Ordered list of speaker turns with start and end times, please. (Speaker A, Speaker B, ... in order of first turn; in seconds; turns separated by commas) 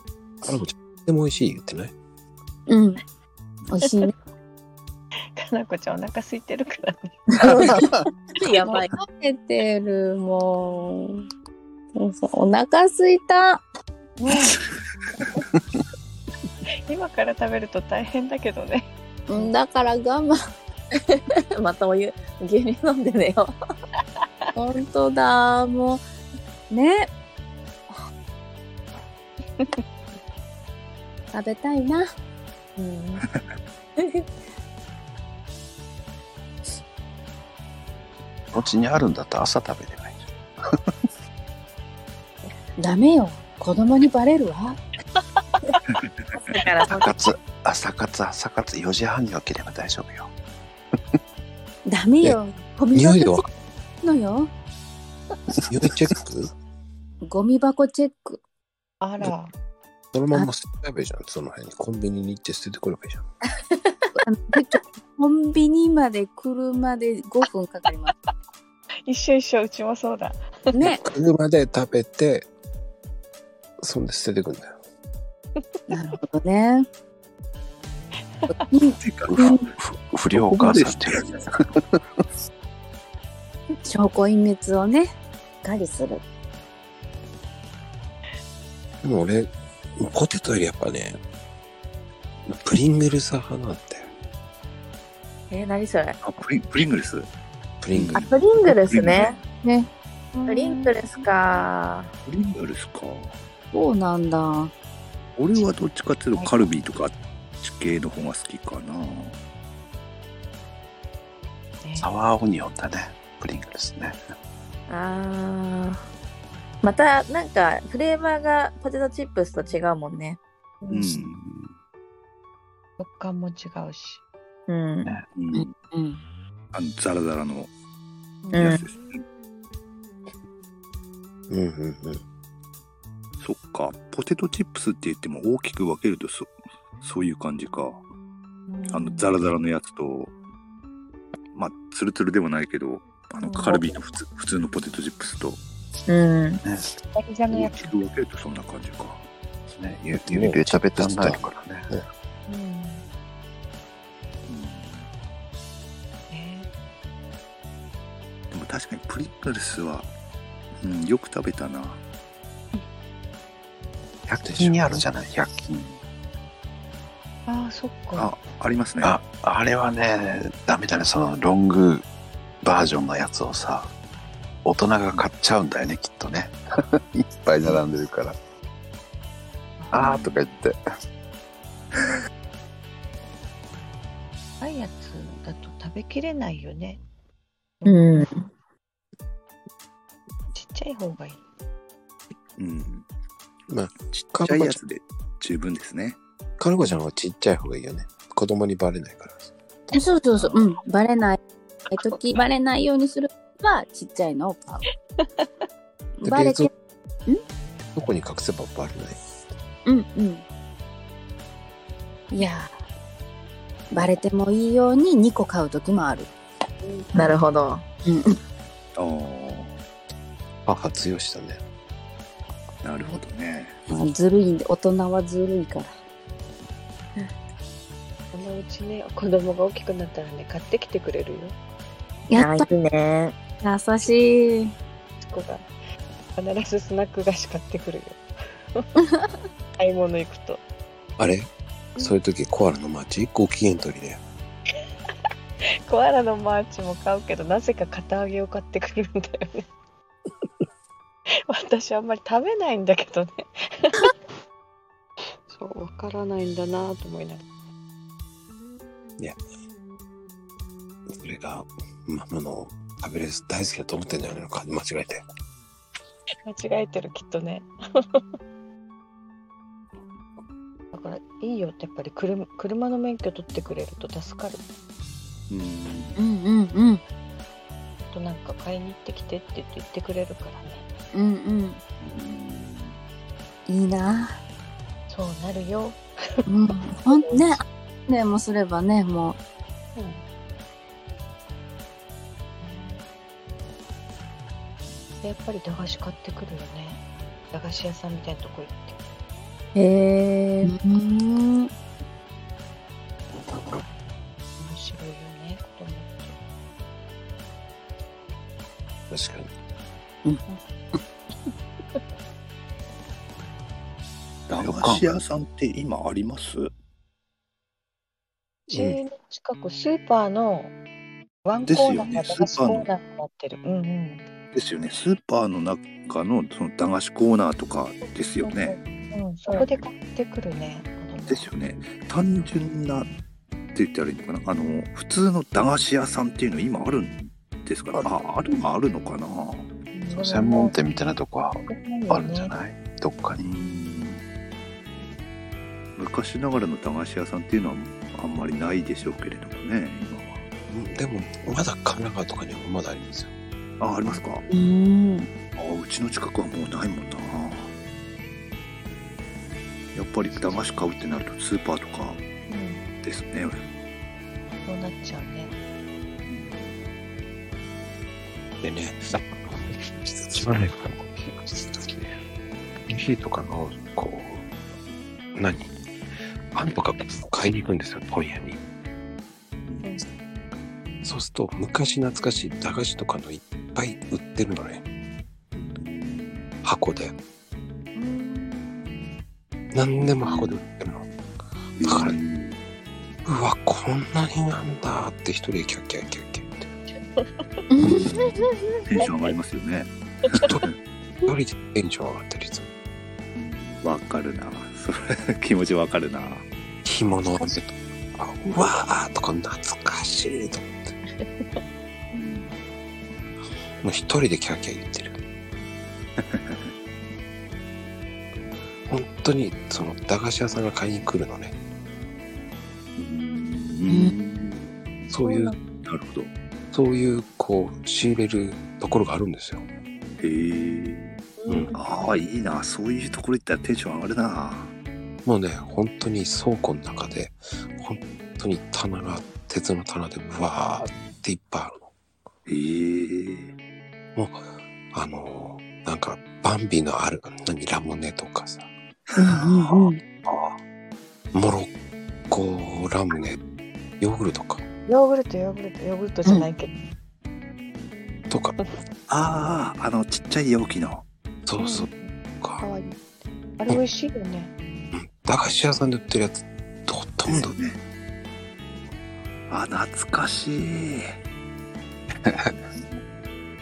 Speaker A: 0.4-1.9, Speaker B: 2.7-3.0, Speaker B: 3.7-4.1, Speaker C: 5.4-7.3, Speaker D: 7.3-8.9, Speaker E: 7.5-8.0, Speaker B: 8.6-11.2, Speaker B: 11.9-13.6, Speaker C: 14.2-14.6, Speaker C: 16.9-19.5, Speaker B: 19.3-20.4, Speaker D: 21.6-23.5, Speaker B: 24.6-26.0, Speaker B: 26.7-27.1, Speaker B: 31.3-32.1, Speaker D: 32.8-33.2, Speaker D: 34.0-34.2, Speaker E: 38.5-40.8, Speaker B: 42.8-44.8, Speaker D: 46.5-47.2, Speaker E: 46.9-50.3, Speaker B: 51.9-53.5, Speaker A: 52.9-53.4, Speaker B: 54.0-54.5, Speaker A: 55.7-56.5, Speaker B: 57.2-58.4, Speaker C: 59.0-59.5, Speaker A: 60.1-63.2, Speaker B: 64.2-68.1, Speaker C: 69.1-70.8, Speaker B: 70.8-71.0, Speaker A: 71.0-72.5, Speaker A: 73.8-74.7, Speaker B: 75.9-76.9, Speaker C: 78.4-78.7, Speaker B: 78.7-79.7, Speaker F: 79.0-79.8, Speaker E: 79.3-82.0, Speaker F: 80.3-81.5, Speaker B: 83.8-86.2, Speaker A: 89.0-91.2, Speaker A: 92.5-94.1, Speaker D: 95.5-96.2, Speaker F: 96.2-97.3, Speaker A: 97.8-98.3, Speaker F: 97.9-99.4, Speaker D: 98.2-99.4, Speaker B: 99.6-101.0, Speaker D: 100.5-102.1, Speaker F: 102.3-103.4, Speaker B: 103.7-104.7, Speaker F: 105.4-109.4, Speaker C: 106.3-106.8, Speaker C: 111.8-112.1, Speaker E: 112.0-114.2, Speaker D: 114.9-116.0, Speaker D: 116.8-120.4, Speaker C: 120.8-121.1, Speaker F: 120.9-121.5, Speaker E: 121.3-121.7, Speaker C: 123.0-124.2, Speaker D: 124.7-125.2, Speaker F: 125.3-125.7, Speaker B: 125.5-126.2, Speaker F: 126.7-127.7, Speaker C: 128.4-128.8, Speaker D: 128.5-128.8, Speaker F: 128.6-129.2, Speaker A: 131.5-132.2, Speaker F: 133.4-136.5, Speaker F: 137.0-138.0, Speaker C: 138.7-139.3, Speaker F: 138.9-140.3, Speaker F: 141.5-145.6, Speaker C: 143.4-144.0, Speaker D: 146.1-146.6, Speaker E: 146.6-146.9, Speaker C: 147.1-147.9, Speaker F: 147.5-149.2, Speaker E: 149.7-151.9, Speaker A: 150.3-152.0, Speaker C: 152.5-153.1, Speaker F: 154.5-155.1, Speaker C: 156.3-156.7, Speaker F: 158.5-160.1, Speaker F: 160.8-162.0, Speaker E: 164.3-166.0, Speaker A: 164.5-165.0, Speaker C: 167.5-168.3, Speaker F: 168.2-169.2, Speaker E: 169.0-172.1, Speaker E: 172.6-173.9, Speaker E: 174.6-178.4, Speaker C: 179.8-180.5, Speaker E: 179.9-180.8, Speaker C: 184.6-187.0, Speaker C: 187.8-188.3, Speaker D: 187.9-188.5, Speaker C: 190.5-191.4, Speaker F: 192.6-193.1, Speaker A: 193.7-194.8, Speaker F: 194.1-196.2, Speaker A: 196.6-199.5, Speaker B: 199.9-204.8, Speaker B: 206.2-206.7, Speaker A: 206.2-206.7, Speaker A: 207.9-209.2, Speaker B: 209.9-210.4, Speaker B: 212.3-212.7, Speaker B: 213.9-216.3, Speaker D: 217.2-217.8, Speaker B: 218.1-218.4, Speaker F: 219.0-219.8, Speaker A: 220.7-221.6, Speaker F: 222.8-223.8, Speaker B: 223.9-225.9, Speaker C: 228.3-231.6, Speaker B: 232.3-232.7, Speaker D: 232.3-233.3, Speaker B: 233.6-234.8, Speaker C: 235.2-235.7, Speaker C: 236.4-238.2, Speaker C: 239.8-240.6, Speaker A: 241.2-244.2, Speaker C: 245.9-249.7, Speaker C: 251.5-254.1, Speaker C: 255.5-257.4, Speaker A: 261.1-265.2, Speaker C: 266.4-268.2, Speaker C: 270.9-274.6, Speaker F: 275.5-276.2, Speaker B: 276.2-277.0, Speaker C: 278.0-280.9, Speaker B: 281.1-281.8, Speaker F: 282.0-283.0, Speaker B: 283.7-284.4, Speaker C: 285.1-286.4, Speaker B: 286.5-289.4, Speaker C: 287.1-287.6, Speaker C: 290.0-290.2, Speaker C: 292.6-293.0, Speaker C: 295.2-299.0, Speaker D: 299.8-300.7, Speaker B: 300.6-301.7, Speaker C: 304.6-306.3, Speaker A: 309.1-309.5, Speaker F: 314.5-316.7, Speaker E: 314.6-315.1, Speaker C: 318.7-320.7, Speaker A: 318.7-319.0, Speaker C: 321.4-324.2, Speaker F: 321.7-322.9, Speaker F: 324.5-328.8, Speaker C: 328.4-331.5, Speaker F: 331.3-333.1, Speaker F: 333.8-339.7, Speaker C: 339.9-340.8, Speaker E: 340.1-343.5, Speaker C: 341.6-342.6, Speaker F: 343.4-344.2, Speaker F: 346.0-350.4, Speaker A: 350.7-353.3, Speaker F: 353.8-354.4, Speaker B: 354.5-355.3, Speaker F: 355.6-357.7, Speaker F: 359.9-362.2, Speaker C: 362.5-362.8, Speaker F: 363.0-363.6, Speaker C: 364.7-365.6, Speaker F: 366.3-366.8, Speaker A: 368.6-372.1, Speaker A: 372.9-374.4, Speaker A: 375.4-375.7, Speaker A: 376.5-378.6, Speaker F: 379.7-380.0, Speaker A: 381.0-384.8, Speaker F: 385.5-386.5, Speaker A: 386.6-387.2, Speaker C: 387.9-389.1, Speaker A: 389.7-391.1, Speaker F: 390.0-390.6, Speaker F: 391.8-392.6, Speaker A: 391.8-392.2, Speaker A: 393.2-396.7, Speaker C: 396.9-399.1, Speaker B: 397.7-398.5, Speaker F: 398.9-400.8, Speaker A: 401.3-402.7, Speaker F: 403.4-406.4, Speaker A: 406.9-410.9, Speaker F: 412.2-412.5, Speaker A: 413.8-415.2, Speaker F: 416.2-416.7, Speaker A: 418.9-421.6, Speaker F: 423.0-424.8, Speaker B: 423.9-424.1, Speaker A: 425.1-425.6, Speaker C: 425.2-425.6, Speaker F: 425.8-426.3, Speaker A: 426.7-429.7, Speaker F: 430.2-431.2, Speaker C: 431.4-432.1, Speaker A: 431.5-431.7, Speaker F: 431.7-434.7, Speaker A: 435.2-441.8, Speaker F: 442.5-443.5, Speaker A: 444.2-448.7, Speaker F: 449.1-450.6, Speaker B: 449.2-450.0, Speaker A: 451.3-451.7, Speaker A: 452.3-453.4, Speaker A: 454.0-454.6, Speaker C: 454.9-456.7, Speaker A: 458.3-458.6, Speaker F: 459.1-461.1, Speaker A: 461.4-462.6, Speaker C: 461.6-464.5, Speaker A: 464.9-467.6, Speaker F: 467.3-467.8, Speaker F: 469.5-471.2, Speaker E: 472.2-472.6